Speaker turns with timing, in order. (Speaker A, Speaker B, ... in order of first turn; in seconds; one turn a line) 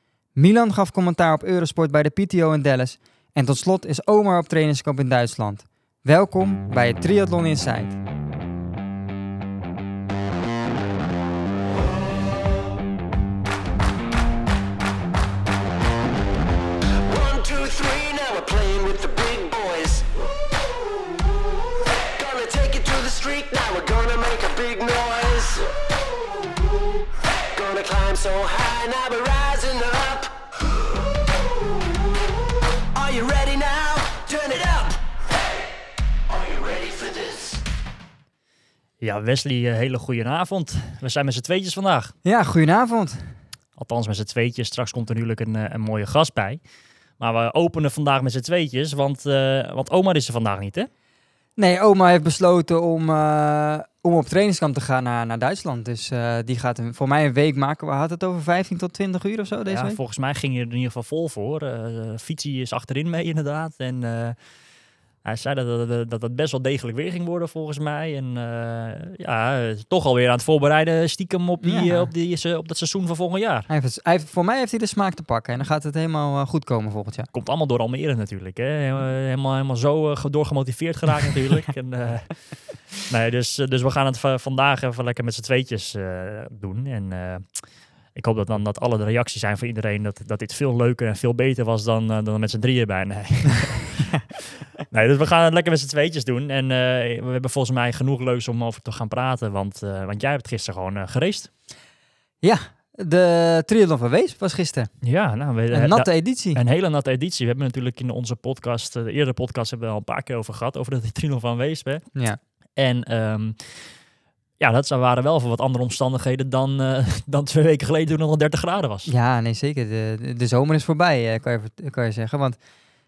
Speaker A: 0.3-8.0
Speaker B: 17.1-20.1
Speaker B: 22.2-25.7
Speaker B: 27.5-30.3
Speaker B: 32.9-35.0
Speaker B: 36.3-37.6
Speaker C: 39.0-42.2
Speaker A: 42.2-43.4
Speaker C: 43.8-46.6
Speaker C: 47.2-50.9
Speaker A: 51.6-60.0
Speaker C: 59.7-73.7
Speaker A: 71.6-72.1
Speaker A: 73.7-77.3
Speaker C: 77.3-101.5
Speaker A: 102.4-105.0
Speaker C: 105.0-112.2
Speaker A: 105.7-106.6
Speaker C: 112.8-114.0
Speaker C: 114.6-119.1
Speaker A: 119.1-122.7